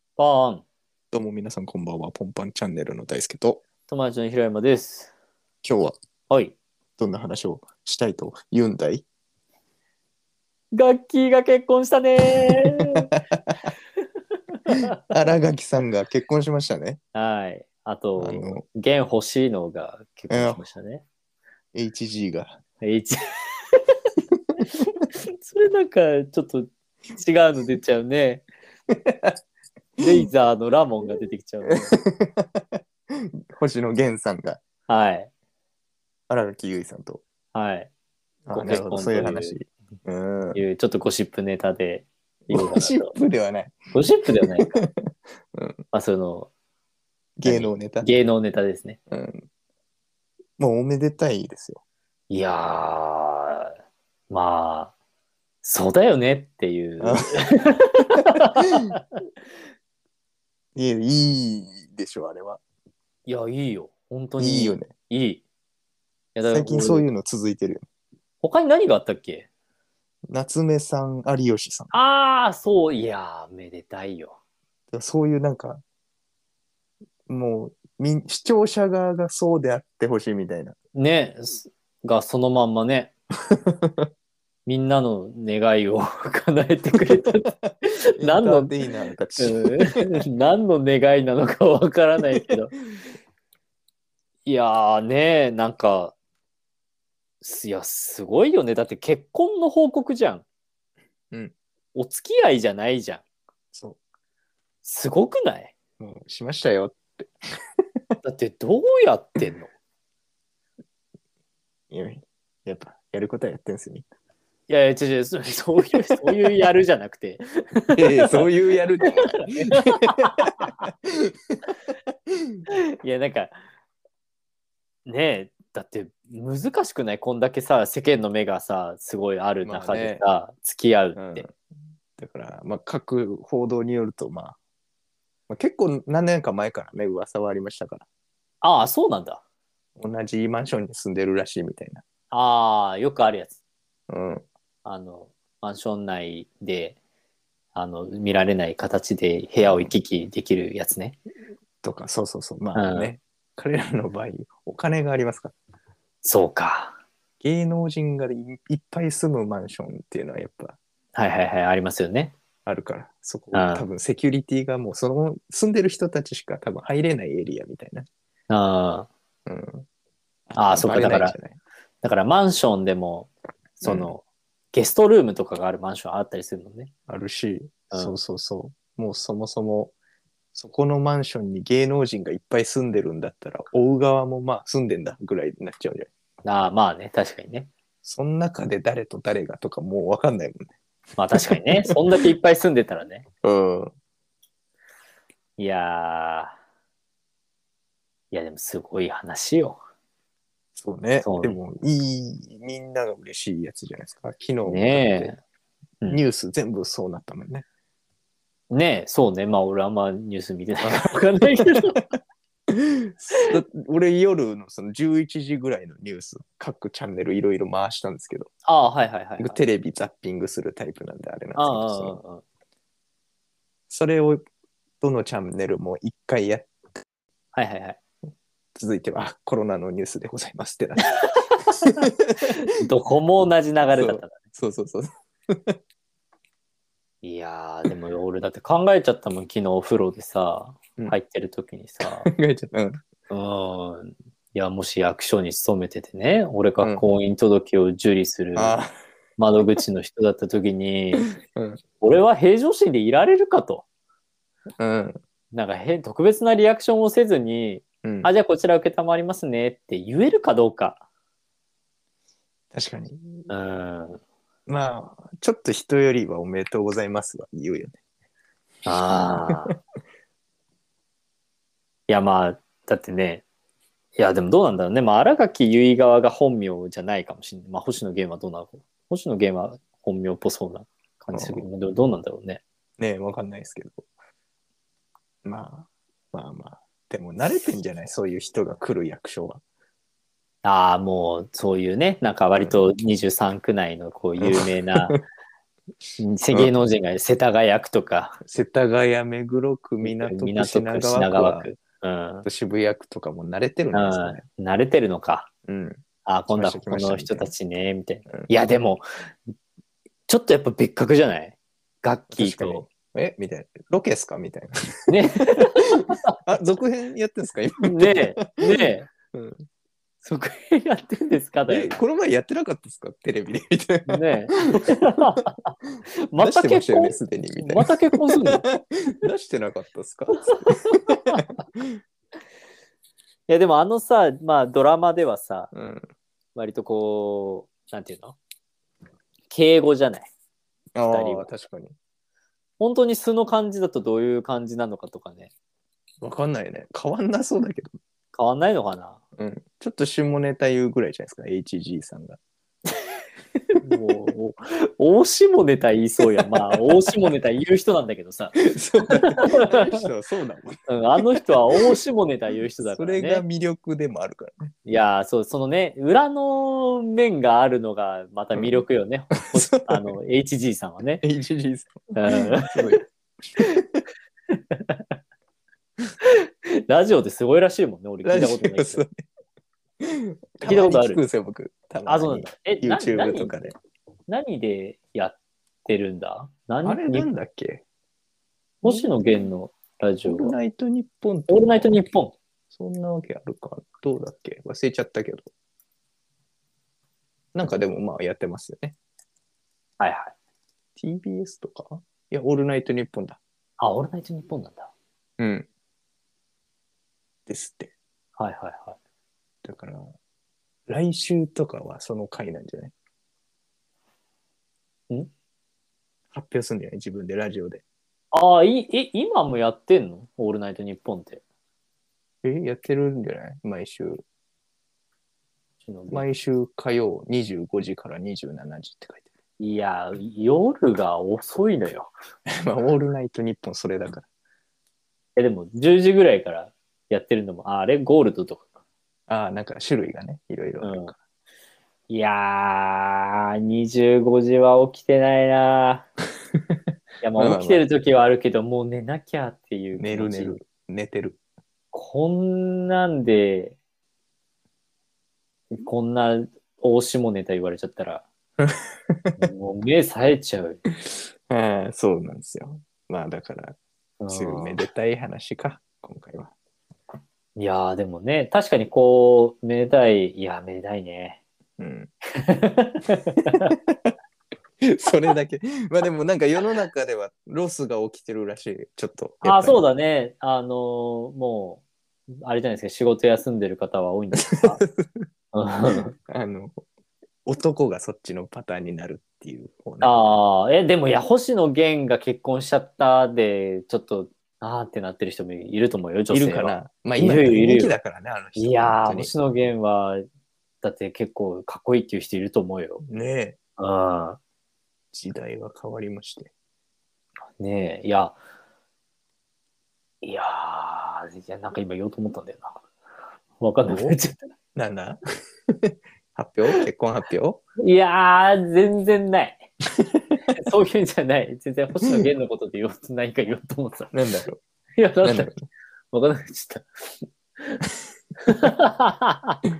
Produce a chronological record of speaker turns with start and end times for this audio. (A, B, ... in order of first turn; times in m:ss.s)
0:00.2-0:00.6 A
0:01.1-0:03.6 B
0:03.9-0:05.1 A
0:05.6-0:05.9 B
0:06.3-0:06.6 A
0:07.0-0:09.0 B
0:10.7-0:13.1 A
0:14.7-0:17.0 B
0:17.1-0:21.0 A
0:18.2-0:18.6 B
0:20.3-0:20.7 B
0:21.8-0:22.6 B
0:22.8-0:23.1 A
0:25.4-0:28.5 A
0:28.9-0:29.4 B
0:30.0-0:32.0 A
0:31.6-0:34.6 B
0:34.9-0:35.3 A
0:36.3-0:37.2 B
0:37.5-0:37.9 A
0:38.5-0:40.6 B
0:38.5-0:39.6 A
0:40.6-0:43.1 A
0:42.5-0:43.9 B
0:43.9-0:44.8 A
0:44.6-0:44.9 B
0:45.5-0:45.8 B
0:45.9-0:46.5 A
0:47.4-0:48.1 B
0:47.4-0:49.0 A
0:49.1-0:49.4 B
0:50.6-0:51.8 B
0:52.3-0:53.7 A
0:54.3-0:54.9 A
0:55.6-0:59.0 A
0:57.0-0:57.4 B
1:00.7-1:02.6 B
1:03.2-1:05.4 A
1:04.4-1:04.9 B
1:06.3-1:07.1 A
1:06.5-1:07.8 B
1:08.4-1:09.5 A
1:10.3-1:11.9 B
1:11.9-1:14.4 A
1:14.9-1:15.8 B
1:17.3-1:20.8 B
1:21.0-1:23.1 A
1:23.6-1:24.1 B
1:24.7-1:27.4 A
1:27.4-1:30.0 B
1:28.2-1:28.7 A
1:29.4-1:32.7 A
1:34.4-1:36.1 A
1:37.4-1:40.4 A
1:42.0-1:43.2 A
1:43.7-1:44.0 B
1:44.8-1:45.7 A
1:46.0-1:47.3 B
1:48.2-1:49.7 A
1:51.9-1:54.1 B
1:54.7-1:58.4 A
1:58.0-2:00.9 B
1:59.3-2:00.7 A
2:03.0-2:03.6 A
2:05.1-2:11.4 A
2:09.6-2:10.2 B
2:11.1-2:11.5 B
2:12.2-2:14.6 B
2:15.5-2:18.0 B
2:18.6-2:19.4 A
2:20.0-2:22.0 B
2:22.3-2:23.6 A
2:24.1-2:24.4 B
2:24.8-2:27.0 A
2:27.7-2:31.2 A
2:29.6-2:29.9 B
2:31.8-2:35.5 B
2:32.7-2:33.1 A
2:36.2-2:37.0 A
2:37.4-2:40.8 B
2:41.1-2:42.3 A
2:42.6-2:48.1 B
2:43.5-2:43.8 A
2:48.5-2:49.1 A
2:49.4-2:49.8 B
2:50.5-2:51.6 B
2:50.6-2:51.3 A
2:52.0-2:56.9 A
2:53.8-2:54.1 B
2:57.1-2:59.9 B
2:57.9-2:58.2 A
3:00.5-3:06.1 B
3:06.4-3:07.7 A
3:08.0-3:10.7 B
3:11.2-3:13.2 A
3:11.3-3:12.0 B
3:13.4-3:13.9 B
3:15.6-3:16.6 A
3:18.3-3:19.8 A
3:20.8-3:25.3 B
3:21.2-3:21.6 A
3:24.6-3:25.4 A
3:26.1-3:27.6 B
3:28.7-3:32.0 A
3:32.7-3:38.5 B
3:38.6-3:39.6 A
3:39.4-3:42.2 B
3:41.6-3:42.4 A
3:43.9-3:44.4 B
3:45.0-3:46.7 B
3:47.5-3:48.0 A
3:48.7-3:51.1 B
3:51.8-3:54.4 A
3:52.0-3:52.5 B
3:53.9-3:55.8 B
3:57.2-4:02.3 A
4:02.0-4:03.0 B
4:03.3-4:08.8 A
4:06.8-4:07.1 B
4:08.6-4:08.9 B
4:09.4-4:11.3 A
4:11.2-4:11.8 B
4:12.0-4:13.8 A
4:14.8-4:15.2 B
4:15.5-4:21.0 A
4:18.0-4:18.3 B
4:22.7-4:23.5 B
4:23.5-4:24.2 A
4:24.7-4:28.0 B
4:28.8-4:29.7 A
4:32.1-4:33.4 A
4:34.2-4:42.6 A
4:41.3-4:41.7 B
4:43.0-4:44.1 B
4:45.4-4:49.6 B
4:50.6-4:55.2 A
4:52.6-4:52.8 B
4:54.4-4:55.2 B
4:56.2-4:58.4 A
4:58.4-5:01.7 B
5:00.0-5:02.4 A
5:02.4-5:04.4 B
5:03.9-5:05.5 A
5:05.7-5:07.5 B
5:06.2-5:09.0 A
5:10.3-5:12.8 A
5:12.3-5:15.5 B
5:15.1-5:16.3 A
5:16.4-5:19.6 B
5:17.8-5:19.1 A
5:20.2-5:21.9 A
5:21.7-5:24.3 B
5:24.1-5:25.7 A
5:26.3-5:28.6 A
5:26.4-5:31.2 B
5:30.5-5:31.5 A
5:33.5-5:35.7 A
5:35.7-5:36.1 B
5:36.5-5:38.4 A
5:39.5-5:40.3 A
5:40.9-5:41.9 B
5:41.1-5:41.5 A
5:42.8-5:45.5 A
5:46.2-5:47.9 B
5:48.3-5:49.2 A
5:49.4-5:52.4 B
5:53.8-6:00.0 A
5:58.6-6:01.9 B
6:00.9-6:03.4 A
6:02.8-6:04.7 B
6:04.8-6:11.2 A
6:09.7-6:10.1 B
6:11.2-6:13.0 B
6:12.2-6:13.0 A
6:13.8-6:14.0 B
6:16.9-6:19.0 A
6:18.2-6:19.2 B
6:20.0-6:23.8 B
6:20.6-6:21.2 A
6:22.1-6:23.7 A
6:24.3-6:27.3 A
6:26.8-6:27.8 B
6:28.8-6:30.5 A
6:28.8-6:29.2 B
6:30.2-6:31.9 B
6:31.5-6:32.4 A
6:32.7-6:35.5 B
6:37.5-6:39.0 B
6:40.0-6:40.3 A
6:41.0-6:43.4 B
6:43.8-6:44.9 A
6:45.4-6:45.7 B
6:47.5-6:47.9 B
6:48.4-6:49.0 A
6:49.6-6:50.1 B
6:50.9-6:52.9 B
6:56.3-6:57.8 B
6:58.3-7:01.4 A
7:02.4-7:04.2 B
7:05.8-7:06.2 A
7:06.1-7:09.2 B
7:09.6-7:12.1 A
7:12.6-7:14.2 B
7:15.4-7:18.6 A
7:19.3-7:21.1 B
7:20.8-7:21.1 A
7:22.1-7:26.1 A
7:27.2-7:30.6 A
7:27.4-7:27.8 B
7:30.0-7:31.4 B
7:31.9-7:33.8 A
7:35.7-7:38.2 A
7:38.6-7:39.5 B
7:39.4-7:40.8 A
7:41.5-7:43.8 B
7:44.2-7:44.8 A
7:44.3-7:46.5 B
7:47.6-7:51.4 A
7:51.8-7:52.1 B
7:52.4-7:53.7 A
7:54.8-7:59.8 B
7:59.4-8:01.8 A
8:02.4-8:04.8 A
8:04.5-8:05.2 B
8:05.5-8:06.1 A
8:05.9-8:06.8 B
8:07.4-8:10.3 B
8:10.0-8:18.0 A
8:16.3-8:19.3 B
8:18.6-8:20.2 A
8:20.8-8:23.0 A
8:23.1-8:23.6 B
8:23.8-8:24.4 A
8:25.1-8:26.5 B
8:27.6-8:28.4 A
8:30.2-8:32.8 A
8:33.6-8:34.4 A
8:33.9-8:34.2 B
8:34.8-8:35.2 B
8:35.8-8:37.6 B
8:37.8-8:39.6 A
8:40.5-8:44.1 A
8:44.1-8:44.6 B
8:45.0-8:45.5 A
8:45.2-8:45.7 B
8:46.1-8:47.8 A
8:48.4-8:49.6 A